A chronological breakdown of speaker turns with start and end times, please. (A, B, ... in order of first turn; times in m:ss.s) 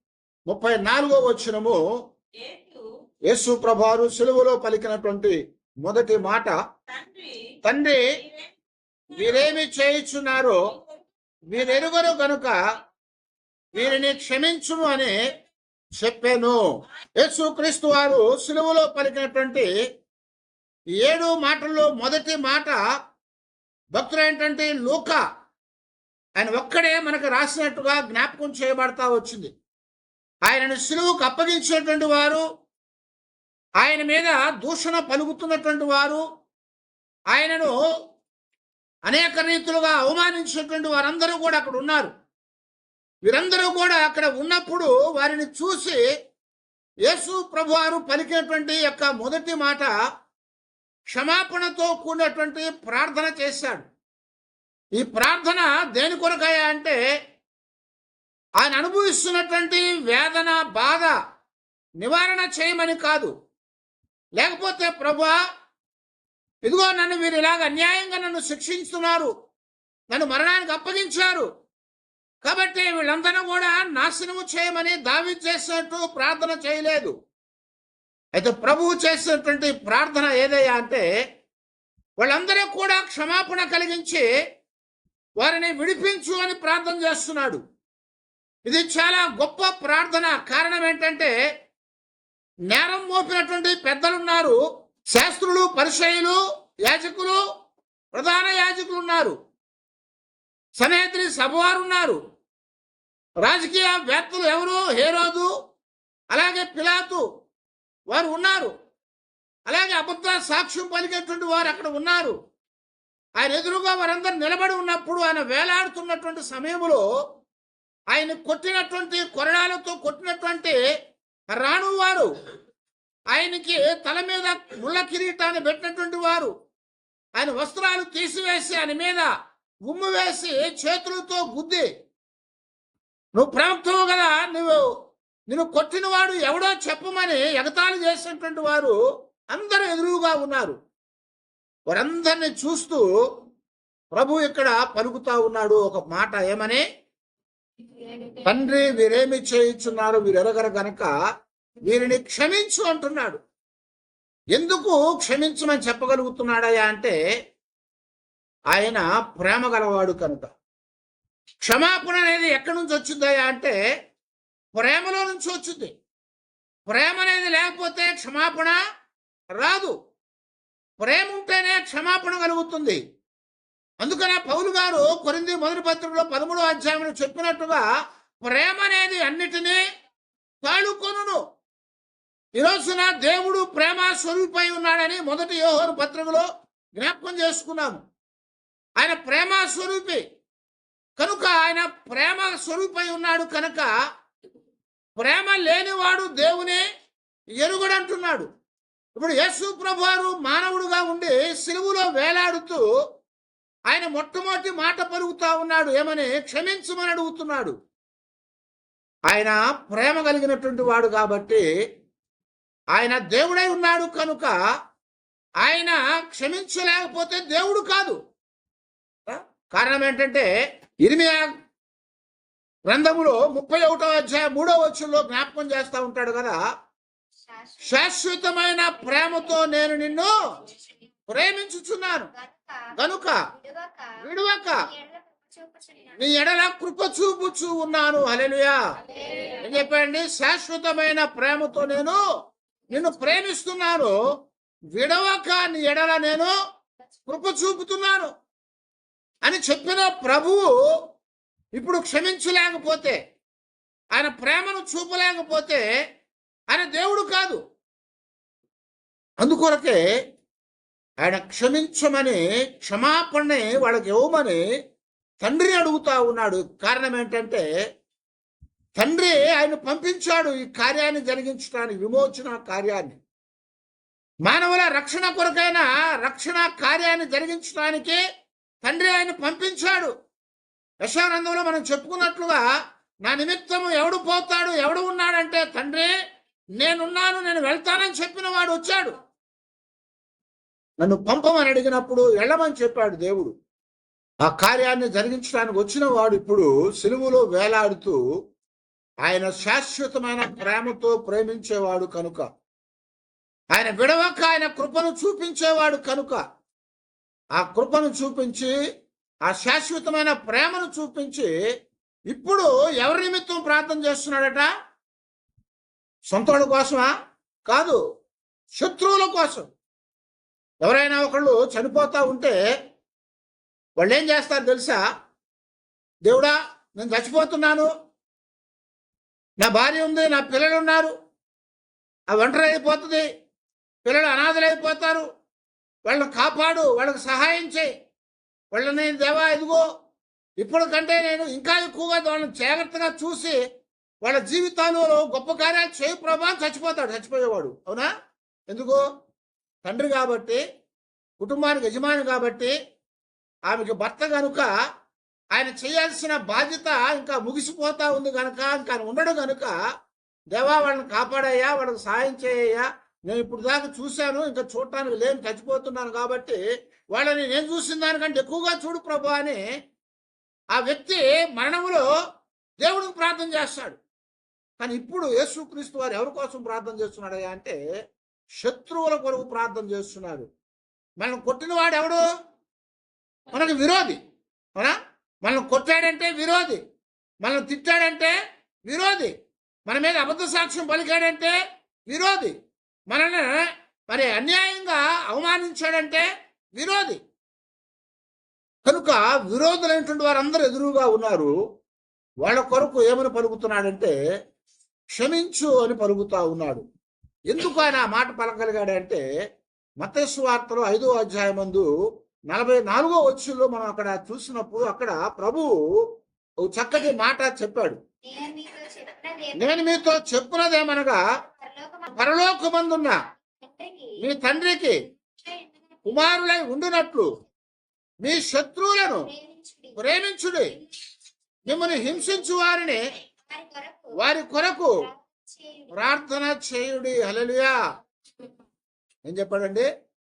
0:00.5-0:01.8 A
0:03.3-0:06.6 A
0:07.6-0:08.0 A
0:09.1-0:10.6 A
0:11.5-0:12.6 A
0:13.7-0:15.2 A
0:16.0-0:16.6 A
0:17.2-0:19.7 A
0:21.0-0:22.8 A
0:23.9-0:25.2 A
0:26.4-0:29.5 A
0:30.4-0:32.4 A
0:33.8-0:36.2 A
0:37.3-0:37.7 A
0:39.0-0:42.1 A
0:43.2-0:46.0 A
0:47.1-0:49.9 A
0:51.1-0:53.9 A
0:55.0-0:57.0 A
0:58.6-1:01.2 A
1:02.0-1:03.3 A
1:04.4-1:05.4 A
1:06.6-1:09.3 A
1:10.1-1:11.5 A
1:12.4-1:17.1 A
1:18.3-1:21.1 A
1:22.2-1:24.3 A
1:25.4-1:27.6 A
1:28.6-1:31.3 A
1:32.7-1:37.4 A
1:38.1-1:39.4 A
1:40.8-1:42.2 A
1:43.4-1:45.5 A
1:46.3-1:47.2 A
1:48.1-1:48.7 A
1:49.7-1:52.4 A
1:53.4-1:57.0 A
1:58.1-2:00.8 A
2:01.5-2:02.3 A
2:03.3-2:06.5 A
2:07.4-2:09.3 A
2:09.8-2:11.9 A
2:13.3-2:14.9 A
2:15.5-2:19.0 A
2:19.5-2:20.8 A
2:21.9-2:23.1 A
2:24.1-2:26.8 A
2:28.1-2:31.1 A
2:31.8-2:33.4 A
2:34.5-2:37.2 A
2:38.7-2:40.5 A
2:41.6-2:43.8 A
2:44.7-2:45.9 A
2:46.9-2:48.8 A
2:49.5-2:50.0 A
2:51.0-2:53.0 A
2:54.0-2:57.8 A
2:58.4-2:59.8 A
3:00.6-3:01.4 A
3:02.6-3:08.0 A
3:09.0-3:10.2 A
3:11.2-3:13.9 A
3:15.2-3:16.8 A
3:17.6-3:18.5 A
3:19.2-3:22.8 A
3:23.9-3:27.7 A
3:29.3-3:31.6 A
3:32.9-3:34.5 A
3:35.6-3:38.2 A
3:39.3-3:40.5 A
3:41.0-3:41.5 A
3:42.9-3:46.6 A
3:47.5-3:48.1 B
3:47.8-3:50.4 A
3:51.3-3:52.3 A
3:52.3-3:54.2 B
3:53.0-3:53.5 A
3:54.2-3:54.9 A
3:54.8-3:56.2 B
3:56.2-3:58.8 A
3:59.1-3:59.6 B
3:59.6-4:02.2 A
4:02.9-4:04.1 A
4:04.9-4:06.5 A
4:07.3-4:08.3 A
4:09.4-4:10.7 A
4:11.8-4:13.2 A
4:14.1-4:15.8 A
4:16.7-4:17.6 A
4:19.4-4:20.0 A
4:21.2-4:24.6 A
4:25.4-4:27.7 A
4:29.0-4:33.2 A
4:34.4-4:38.2 A
4:38.8-4:40.1 A
4:41.0-4:42.6 A
4:43.2-4:46.1 A
4:46.8-4:49.2 A
4:51.0-4:53.5 A
4:54.4-4:58.2 A
4:59.2-5:02.5 A
5:03.7-5:06.4 A
5:07.6-5:08.7 A
5:09.4-5:11.5 A
5:12.3-5:14.7 A
5:16.3-5:17.1 A
5:17.7-5:18.0 A
5:18.8-5:19.7 A
5:20.8-5:22.6 A
5:24.0-5:25.0 A
5:26.2-5:27.9 A
5:29.6-5:31.1 A
5:32.3-5:33.2 A
5:34.0-5:35.3 A
5:36.0-5:37.9 A
5:38.7-5:39.8 A
5:40.6-5:43.6 A
5:44.2-5:48.1 A
5:48.7-5:49.0 A
5:49.8-5:50.6 A
5:51.4-5:52.8 A
5:53.7-5:54.7 A
5:55.5-5:59.7 A
6:00.5-6:06.6 A
6:07.1-6:09.6 A
6:10.7-6:12.1 A
6:12.8-6:14.0 A
6:14.8-6:17.8 A
6:18.6-6:20.5 A
6:21.2-6:22.2 A
6:23.5-6:24.2 A
6:24.8-6:26.8 A
6:27.4-6:28.4 A
6:28.9-6:29.3 A
6:29.9-6:31.6 A
6:32.1-6:32.5 A
6:33.1-6:37.2 A
6:38.8-6:41.5 A
6:42.4-6:44.1 A
6:45.2-6:46.8 A
6:47.5-6:49.2 A
6:50.0-6:51.9 A
6:52.5-6:55.8 A
6:56.6-6:58.0 A
6:58.2-7:00.0 B
6:59.6-7:01.2 A
7:01.6-7:02.1 B
7:02.1-7:03.2 A
7:03.6-7:04.2 B
7:04.2-7:05.0 A
7:05.4-7:06.0 B
7:06.0-7:07.3 A
7:08.2-7:09.3 A
7:09.2-7:10.0 B
7:10.0-7:10.8 A
7:11.6-7:13.0 A
7:11.7-7:12.5 B
7:13.5-7:14.1 B
7:14.2-7:15.0 A
7:15.1-7:15.9 B
7:15.9-7:17.8 A
7:19.2-7:19.9 A